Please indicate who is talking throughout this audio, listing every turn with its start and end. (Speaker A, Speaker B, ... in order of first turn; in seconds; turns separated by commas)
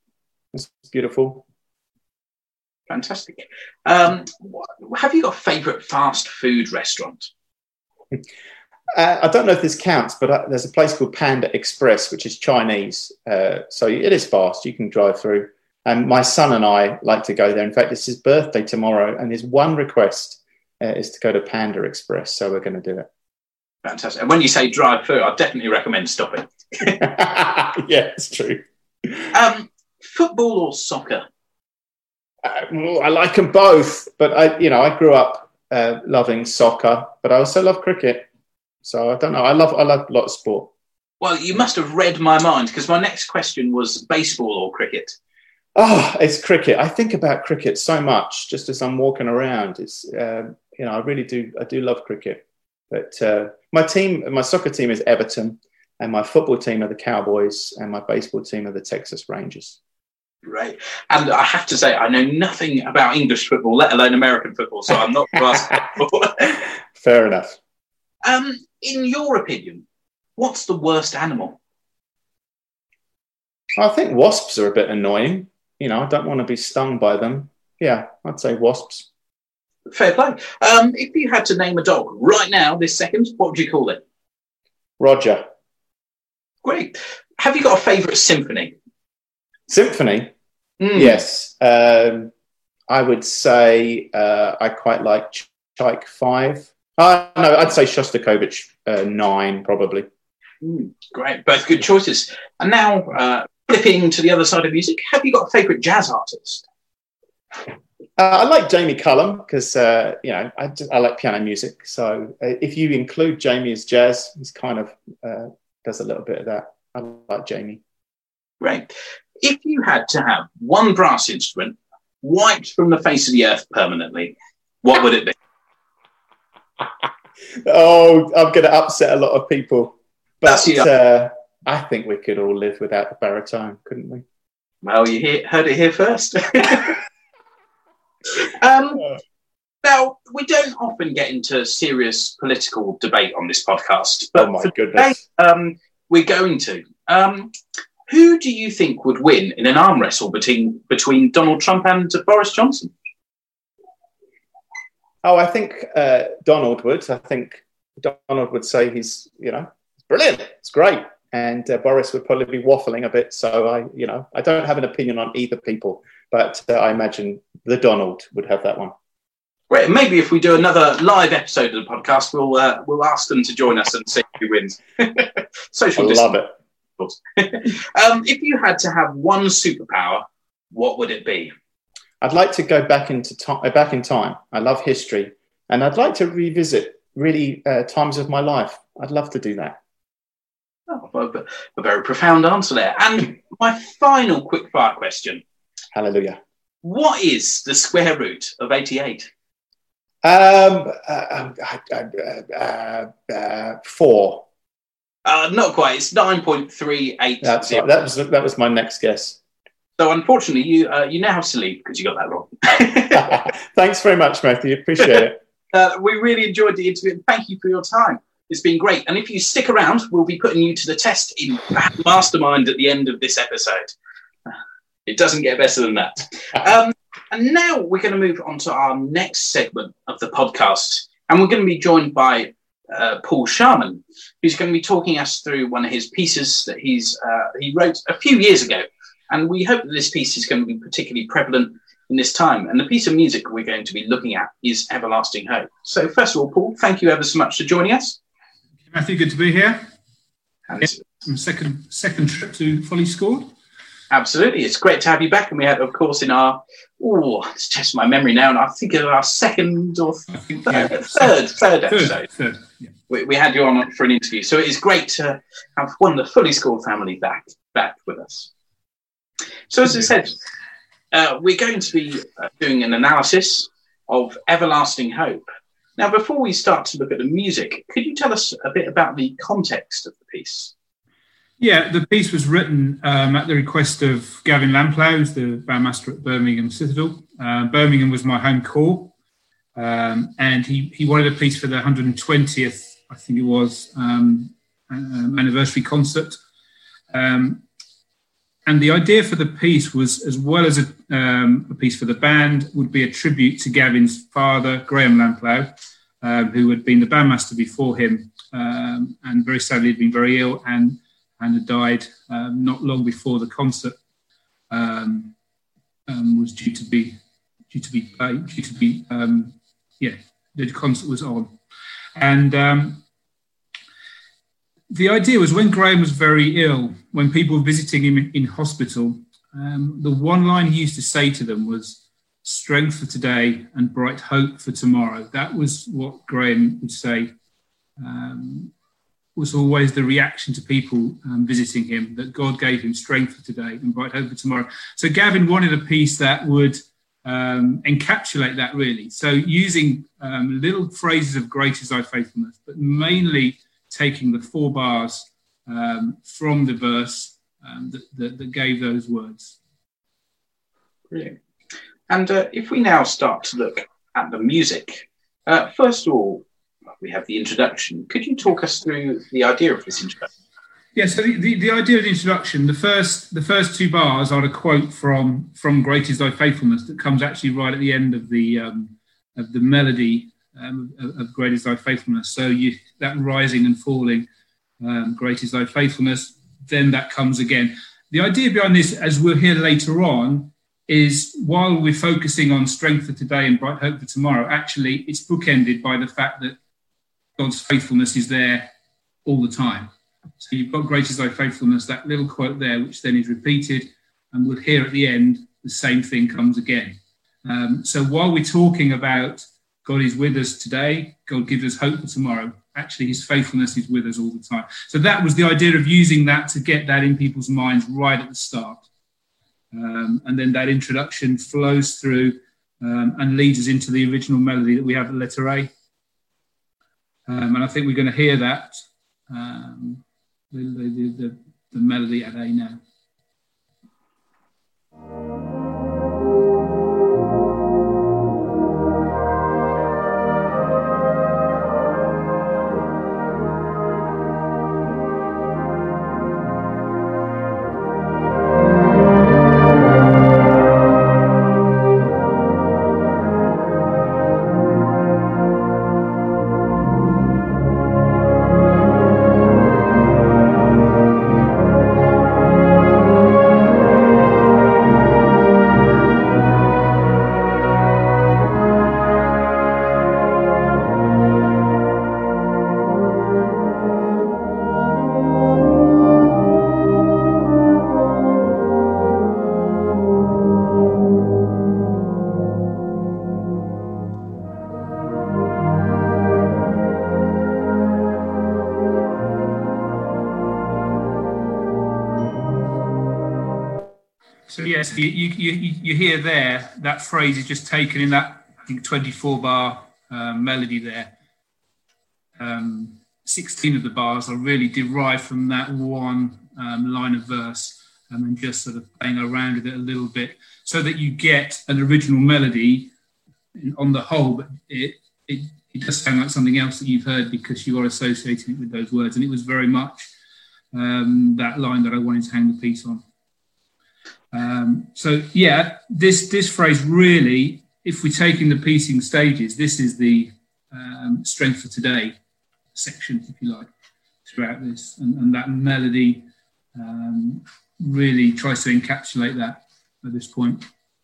Speaker A: 0.5-1.4, Speaker B: 2.9-7.3, Speaker A: 8.9-23.1, Speaker B: 23.8-27.0, Speaker A: 26.9-29.3, Speaker B: 29.3-31.3, Speaker A: 32.4-38.2, Speaker A: 38.8-40.7, Speaker B: 41.2-45.2, Speaker A: 45.8-59.8, Speaker B: 60.5-66.5, Speaker A: 66.4-67.6, Speaker B: 68.2-69.8, Speaker B: 70.4-71.6, Speaker A: 73.8-79.1, Speaker B: 79.9-84.0, Speaker A: 85.0-85.4, Speaker B: 86.6-88.7, Speaker A: 89.7-90.3, Speaker B: 90.8-91.2, Speaker A: 90.9-92.3, Speaker A: 92.9-100.1, Speaker B: 100.6-106.6, Speaker A: 108.2-117.8, Speaker B: 118.6-125.3, Speaker A: 126.8-127.1, Speaker A: 127.6-134.2, Speaker B: 130.4-130.9, Speaker B: 134.8-137.0, Speaker B: 138.3-139.1, Speaker B: 139.8-147.5, Speaker A: 144.4-145.2, Speaker B: 148.1-152.9, Speaker A: 155.2-168.9, Speaker B: 169.7-176.4, Speaker A: 176.0-176.5, Speaker B: 177.0-181.5, Speaker A: 182.2-189.8, Speaker B: 190.9-195.4, Speaker A: 195.9-196.4, Speaker B: 196.8-199.3, Speaker A: 200.2-204.4, Speaker B: 205.2-207.9, Speaker A: 207.4-209.4, Speaker B: 210.0-213.4, Speaker A: 213.1-215.4, Speaker B: 215.7-223.9, Speaker B: 225.1-248.2, Speaker C: 248.9-249.9, Speaker C: 250.8-253.5, Speaker B: 254.1-262.3, Speaker C: 260.7-261.4, Speaker C: 261.9-262.9, Speaker B: 263.1-268.5, Speaker B: 269.7-270.4, Speaker B: 271.1-275.4, Speaker B: 276.0-280.7, Speaker C: 281.6-289.1, Speaker C: 289.8-296.4, Speaker C: 297.1-297.6, Speaker C: 298.7-314.0, Speaker C: 314.7-315.4, Speaker C: 316.1-317.2, Speaker C: 317.7-321.6, Speaker C: 322.2-323.0, Speaker C: 324.9-337.3, Speaker C: 338.0-338.7, Speaker C: 339.4-359.6, Speaker B: 361.1-361.4, Speaker B: 362.1-366.5, Speaker B: 367.0-370.3, Speaker C: 370.9-384.3, Speaker C: 384.8-396.6, Speaker C: 397.4-398.7, Speaker C: 399.2-418.9, Speaker C: 419.7-425.7, Speaker C: 427.3-428.8, Speaker C: 429.3-432.8, Speaker C: 494.5-501.1, Speaker C: 502.4-512.9, Speaker C: 513.5-520.1, Speaker C: 520.7-523.0, Speaker C: 524.3-532.2, Speaker C: 532.8-533.7, Speaker C: 534.2-540.7